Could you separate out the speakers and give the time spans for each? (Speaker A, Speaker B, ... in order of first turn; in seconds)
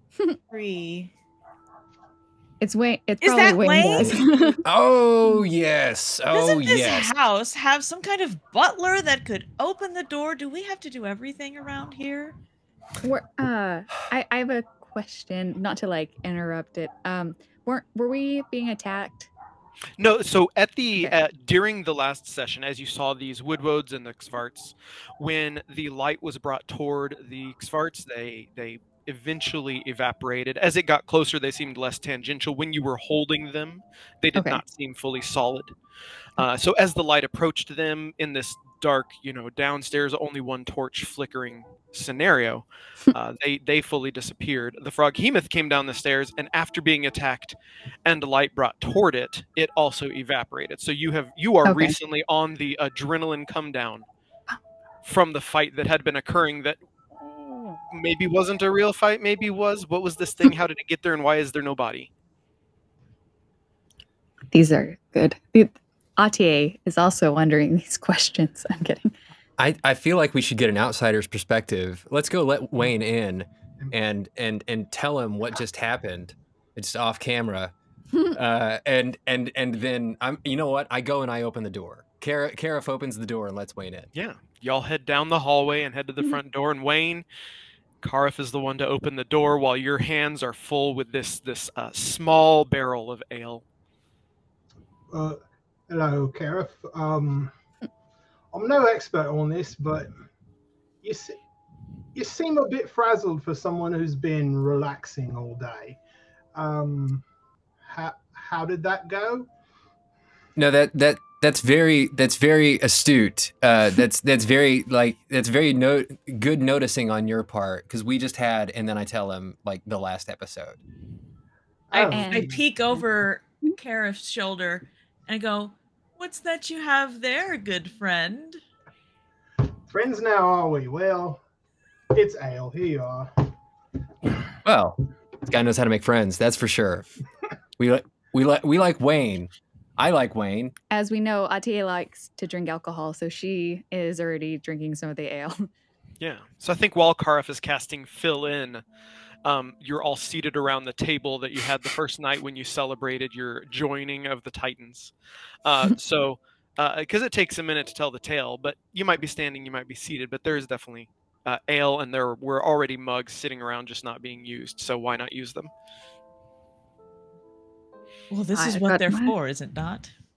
Speaker A: 0.5-1.1, 3.2-4.2, 6.3-12.4, 121.9-128.6, 168.3-170.1
Speaker B: 2.6-4.6, 13.0-19.3, 34.4-34.6, 51.6-52.0, 64.5-69.1, 122.0-123.0, 140.9-145.7, 168.5-169.3
Speaker C: 3.9-7.1, 69.6-77.8, 78.3-84.1, 110.6-120.8, 134.6-137.1, 137.8-140.7
Speaker D: 20.0-35.8, 36.4-54.1, 55.0-62.1, 84.2-87.2, 88.0-93.6, 146.2-148.8, 149.4-155.1, 155.6-165.7
Speaker E: 95.1-97.5, 98.5-100.1, 101.0-101.4, 102.1-106.0, 106.5-107.2, 107.8-109.5, 121.9-122.6, 129.9-131.4, 132.1-133.5